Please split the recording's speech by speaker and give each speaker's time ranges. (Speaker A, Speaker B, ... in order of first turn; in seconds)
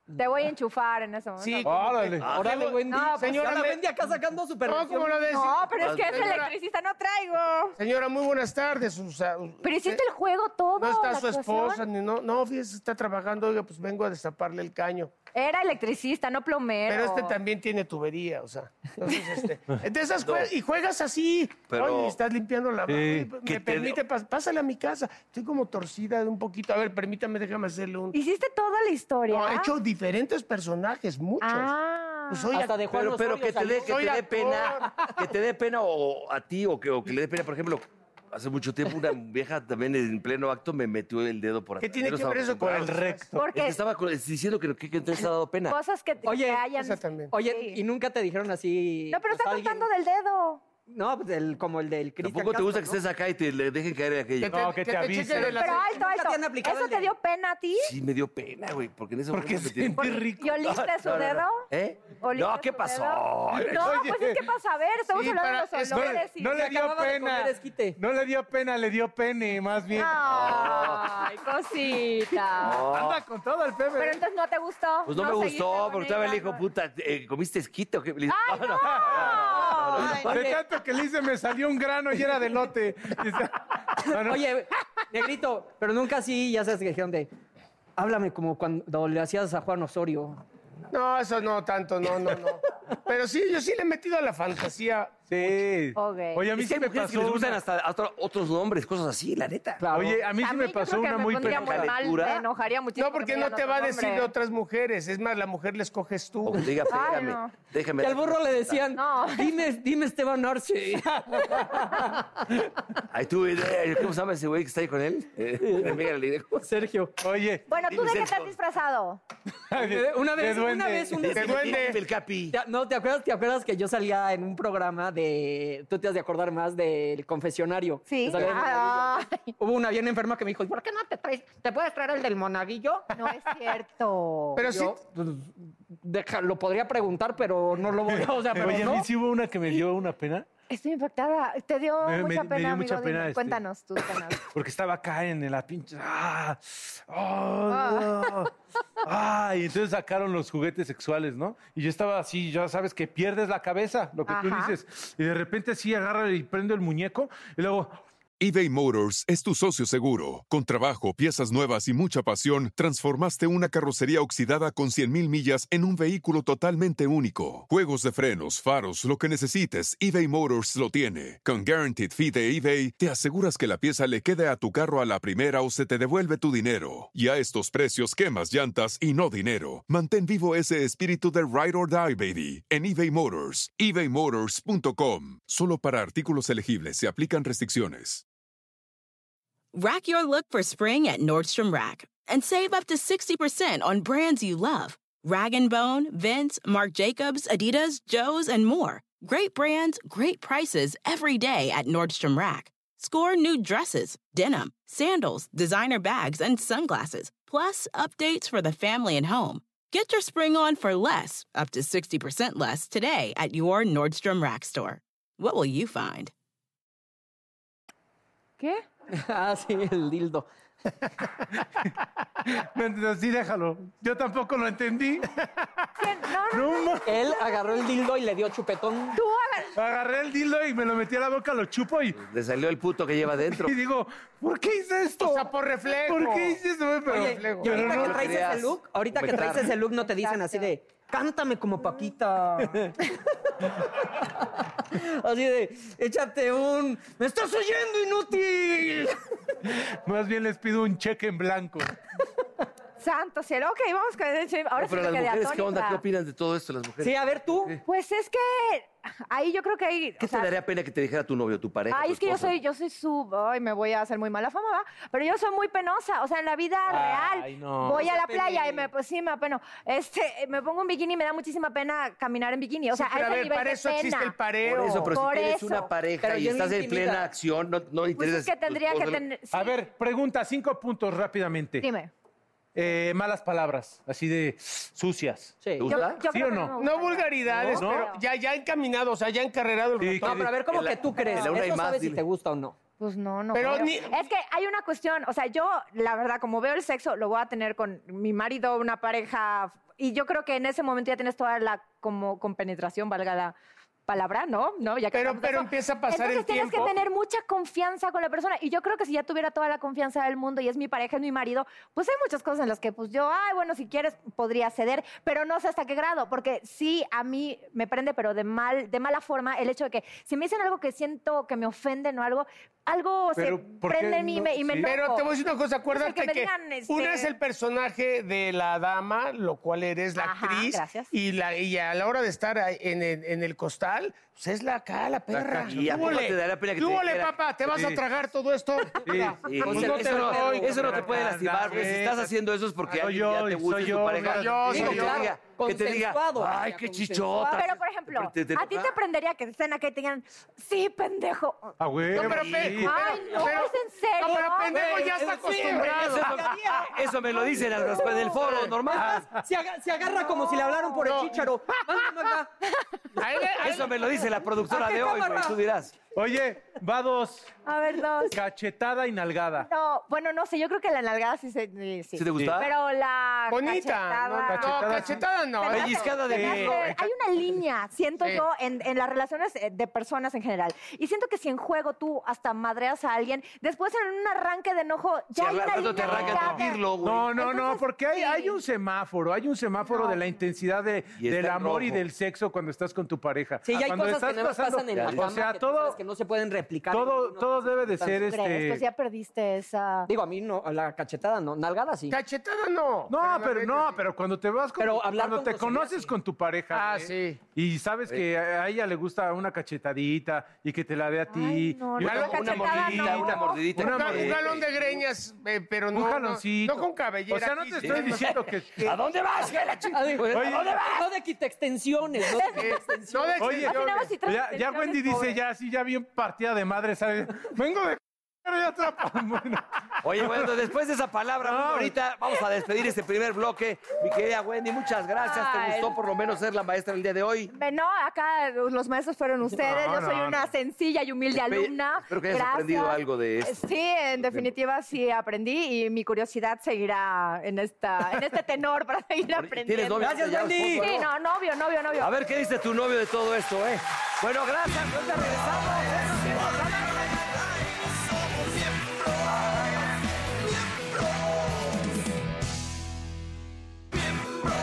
Speaker A: 0.2-1.9, 2.9-3.4, 5.3-7.8, 9.6-11.8, 15.3-17.4, 28.1-29.7, 31.4-32.5, 43.4-43.8, 45.7-47.8, 49.1-50.6, 55.3-57.9, 60.0-61.7, 62.2-66.6, 70.0-72.8, 74.0-76.6, 78.3-80.3, 96.0-96.4, 100.4-104.3, 106.9-107.5, 109.0-109.5, 117.7-119.2, 128.1-129.5, 133.1-134.6, 140.7-144.4, 147.7-148.3, 154.3-154.7, 226.0-227.8, 229.1-229.8, 240.0-240.7, 253.0-256.0, 257.9-260.5, 261.9-274.3, 275.1-275.9, 278.1-279.8, 281.8-282.1, 285.9-288.2, 291.2-291.4, 293.0-303.6, 304.1-325.3, 325.9-327.4, 330.2-331.1, 347.5-351.8, 352.8-355.1, 360.3-361.2, 367.7-368.4, 369.6-386.8, 387.3-388.6, 389.9-390.2, 398.2-400.1, 411.3-413.6, 422.3-422.8, 423.6-425.4, 435.2-435.9, 437.5-450.1, 450.8-452.1
Speaker B: 1.4-3.8, 4.7-6.5, 7.8-10.0, 10.8-15.1, 16.9-28.1, 29.3-31.7, 32.3-32.8, 33.9-35.0, 41.8-43.2, 46.8-47.3, 54.4-56.0, 65.1-66.2, 90.9-95.6, 103.0-106.7, 121.3-122.0, 134.6-135.0, 235.2-238.2, 272.9-275.1, 286.8-290.5, 293.5-294.2, 305.1-307.0, 324.9-341.1, 344.2-345.3, 352.1-356.4, 361.1-361.5, 363.2-363.9, 373.5-376.2, 402.1-404.0, 406.7-407.4, 413.8-418.4, 422.4-424.1
Speaker C: 1.6-2.3, 22.9-23.4, 42.7-43.5, 54.5-55.7, 59.3-60.7, 63.6-64.5, 65.9-70.7, 72.9-74.2, 78.8-79.5, 80.2-84.5, 95.3-97.6, 99.9-101.9, 117.2-117.7, 119.7-121.4, 138.1-140.5, 142.0-143.6, 144.4-148.5, 149.0-158.0, 221.6-225.9, 226.5-227.1, 229.8-232.2, 233.6-238.3, 249.7-251.9, 266.9-268.1, 279.5-281.9, 282.8-285.6, 286.3-286.7, 287.6-288.1, 290.0-290.5, 323.4-324.9, 335.4-336.2, 337.7-338.0, 339.0-342.3, 342.9-345.0, 351.8-353.0, 358.9-359.4, 366.1-367.5, 368.3-369.7, 374.5-377.1, 386.0-396.0, 396.9-398.8, 403.1-414.5, 415.9-419.0, 420.3-420.7, 423.4-430.5, 431.4-431.9, 439.6-440.5
Speaker D: 2.2-2.8, 5.8-6.5, 20.2-20.5, 21.7-22.2, 23.4-24.0, 32.9-42.9, 43.5-45.8, 52.2-54.7, 57.8-64.0, 70.2-71.1, 72.6-73.2, 75.1-80.5, 96.5-99.8, 101.4-102.4, 106.5-108.8, 113.1-116.7, 117.8-118.5, 121.2-122.6, 232.2-233.8, 237.7-239.8, 254.8-257.7, 260.2-262.6, 274.6-279.2, 285.8-286.2, 290.6-292.2, 335.6-337.4, 339.4-348.9, 352.1-352.8, 355.5-359.2, 363.6-366.0, 372.2-372.7, 375.8-376.8, 385.4-387.4, 391.2-392.1, 394.9-395.4, 412.0-414.9, 417.8-418.3, 418.8-421.1, 430.0-437.5, 441.3-444.5, 449.3-451.1, 452.0-456.9
Speaker E: 2.3-5.2, 32.5-34.0, 46.2-46.7, 47.3-49.9, 50.9-53.0, 55.9-57.1, 66.5-68.0, 79.5-80.6, 84.1-87.3, 88.0-90.4, 99.8-100.2, 108.0-112.3, 115.6-116.0, 116.6-117.1, 119.7-121.9, 122.5-133.1, 134.6-139.1, 219.1-220.5, 227.1-229.2, 237.1-243.8, 244.4-249.2, 257.0-257.8, 267.9-268.9, 276.2-277.3, 285.6-285.9, 290.2-292.8, 339.6-341.1, 344.7-347.6, 354.3-362.5, 364.7-365.6, 393.6-398.3, 400.1-402.2, 404.8-406.1, 419.9-423.5, 450.0-450.9
Speaker F: 158.4-188.2
Speaker G: 189.7-216.3